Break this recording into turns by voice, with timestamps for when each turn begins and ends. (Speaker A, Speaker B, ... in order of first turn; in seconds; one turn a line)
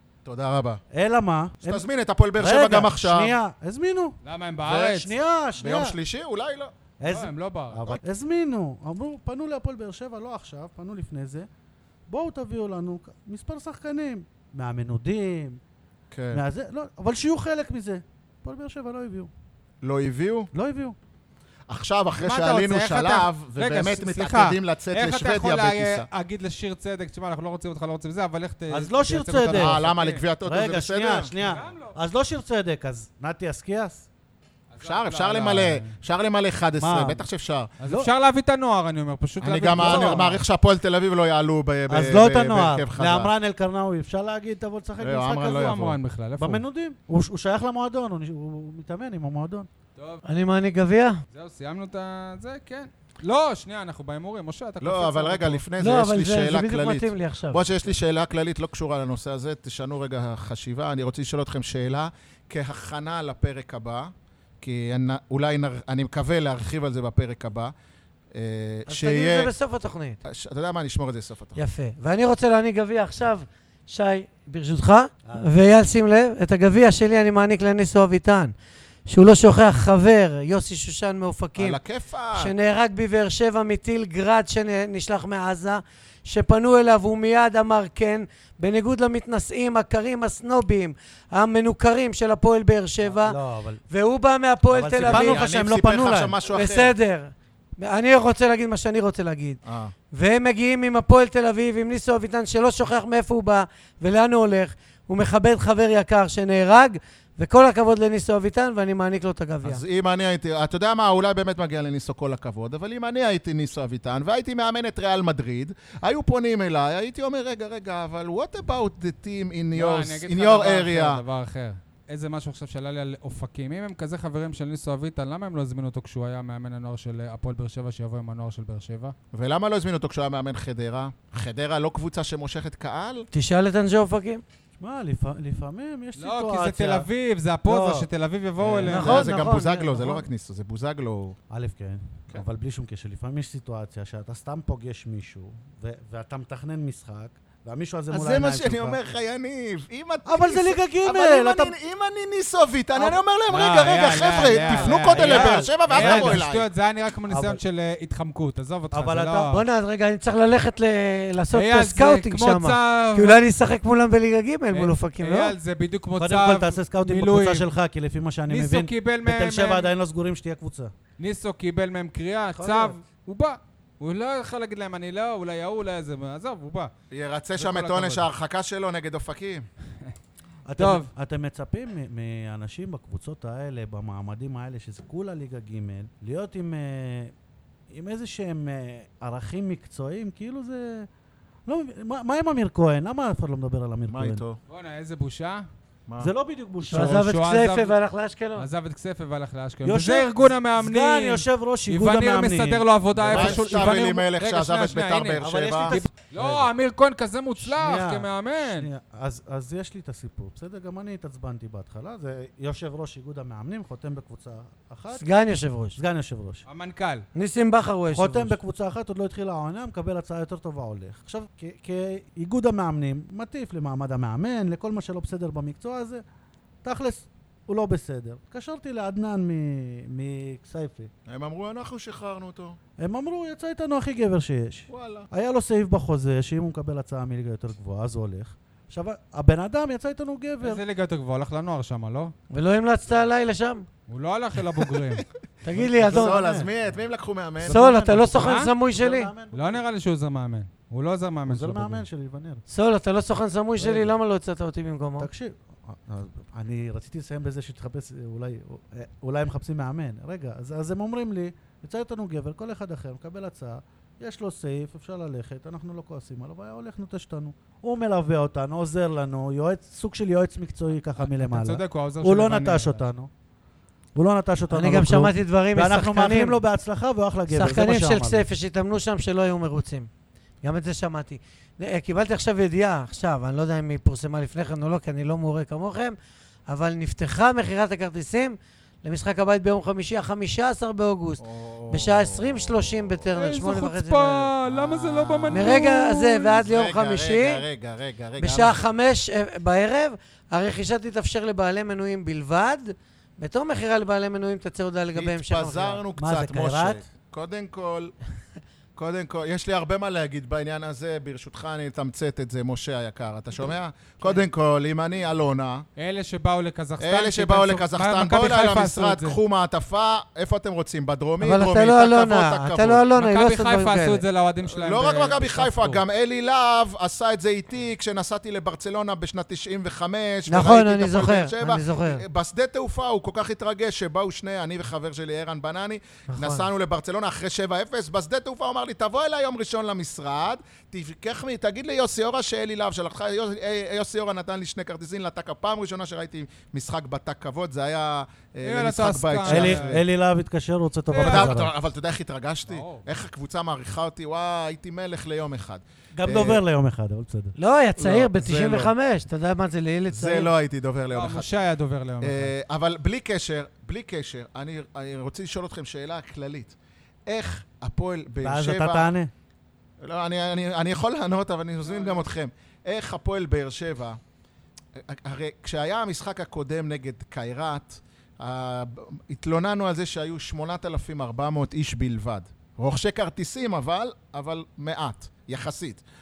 Speaker A: 0.2-0.8
Speaker B: 0.9-1.9
Speaker A: 1.6-3.4
Speaker B: 2.4-6.0
Speaker C: 4.2-5.2
Speaker A: 5.6-6.7
Speaker B: 7.0-11.5
Speaker C: 7.1-7.9
Speaker B: 12.1-15.6
Speaker A: 16.1-16.4
Speaker B: 16.3-19.3
Speaker A: 19.8-20.5
Speaker B: 20.5-21.0
Speaker A: 21.7-26.1
Speaker C: 22.2-30.2
Speaker B: 28.7-29.8
Speaker A: 29.5-31.3
Speaker B: 30.4-34.1
Speaker C: 31.4-32.0
Speaker C: 34.7-35.9
Speaker A: 34.8-37.7
Speaker B: 36.8-37.2
Speaker C: 37.8-40.4
Speaker A: 39.4-43.3
Speaker B: 39.8-40.4
Speaker B: 41.9-45.7
Speaker A: 45.0-46.0
Speaker C: 45.4-46.6
Speaker B: 46.4-49.7
Speaker C: 50.0-50.2
Speaker D: 50.2-51.2
Speaker C: 51.3-55.6
Speaker A: 54.8-67.7
Speaker D: 55.8-57.9
Speaker A: 68.3-69.5
Speaker D: 68.9-70.2
Speaker A: 70.2-71.6
Speaker D: 71.6-78.5
Speaker D: 79.1-81.8
Speaker A: 81.6-82.5
Speaker D: 82.3-93.4
Speaker B: 93.0-93.8
Speaker D: 93.9-95.5
Speaker B: 94.7-96.4
Speaker A: 95.0-97.0
Speaker D: 96.4-99.6
Speaker A: 99.7-99.9
Speaker D: 100.1-109.8
Speaker A: 109.6-121.2
Speaker C: 119.8-129.2
Speaker A: 129.3-133.3
Speaker D: 133.3-134.4
Speaker B: 134.8-137.1
Speaker C: 136.2-139.3
Speaker B: 137.7-138.1
Speaker A: 138.6-141.4
Speaker D: 138.8-140.2
Speaker B: 141.5-149.0
Speaker A: 148.1-156.7
Speaker B: 150.3-151.8
Speaker C: 153.5-159.6
Speaker B: 154.4-156.4
Speaker B: 157.3-157.6
Speaker B: 158.9-159.5
Speaker D: 159.5-165.5
Speaker C: 161.5-163.4
Speaker C: 164.7-167.7
Speaker B: 166.2-170.9
Speaker C: 168.5-169.9
Speaker C: 171.2-176.9
Speaker B: 172.6-173.0
Speaker A: 177.1-179.7
Speaker C: 177.6-178.2
Speaker B: 180.7-187.3
Speaker C: 180.8-181.1
Speaker B: 187.9-191.1
Speaker B: 191.7-194.4
Speaker A: 194.1-194.6
Speaker C: 194.7-195.7
Speaker A: 196.1-196.3
Speaker B: 196.2-197.2
Speaker D: 196.9-198.7
Speaker C: 196.9-198.0
Speaker C: 198.6-208.9
Speaker B: 199.8-204.0
Speaker A: 203.3-206.0
Speaker B: 205.4-206.7
Speaker B: 207.6-215.2
Speaker D: 215.1-216.0
Speaker B: 216.0-216.7
Speaker C: 216.7-217.2
Speaker D: 217.3-218.6
Speaker B: 218.1-226.2
Speaker B: 226.8-231.1
Speaker A: 231.3-232.8
Speaker B: 233.0-240.8
Speaker A: 234.9-235.3
Speaker C: 240.6-242.3
Speaker D: 242.5-243.9
Speaker C: 244.1-245.3
Speaker D: 245.6-246.5
Speaker B: 245.7-246.7
Speaker A: 246.0-247.8
Speaker B: 247.6-249.8
Speaker D: 247.7-249.3
Speaker C: 248.3-248.7
Speaker C: 249.5-252.1
Speaker B: 251.5-252.6
Speaker D: 252.7-255.3
Speaker B: 253.8-254.1
Speaker B: 255.2-273.3
Speaker C: 271.2-273.1
Speaker B: 274.1-278.5
Speaker D: 274.7-276.6
Speaker D: 277.5-280.1
Speaker D: 280.6-286.2
Speaker D: 286.7-294.6
Speaker A: 291.4-293.2
Speaker C: 293.3-296.5
Speaker A: 295.2-295.8
Speaker D: 295.5-297.6
Speaker A: 296.4-298.8
Speaker D: 298.4-306.0
Speaker A: 305.1-308.1
Speaker B: 306.2-307.0
Speaker A: 309.0-315.9
Speaker C: 316.0-319.4
Speaker A: 317.0-323.0
Speaker D: 321.4-324.2
Speaker C: 323.2-326.0
Speaker A: 324.7-350.1
Speaker D: 330.5-332.2
Speaker D: 336.3-336.7
Speaker C: 348.6-350.0
Speaker B: 349.5-351.7
Speaker C: 351.1-351.7
Speaker A: 351.2-356.6
Speaker C: 352.7-353.0
Speaker B: 356.1-357.5
Speaker D: 357.6-360.5
Speaker A: 358.0-358.9
Speaker A: 360.1-361.5
Speaker C: 361.1-362.5
Speaker A: 362.2-366.8
Speaker A: 367.3-369.1
Speaker B: 368.4-369.3
Speaker A: 370.0-374.2
Speaker C: 371.9-372.2
Speaker A: 375.0-386.0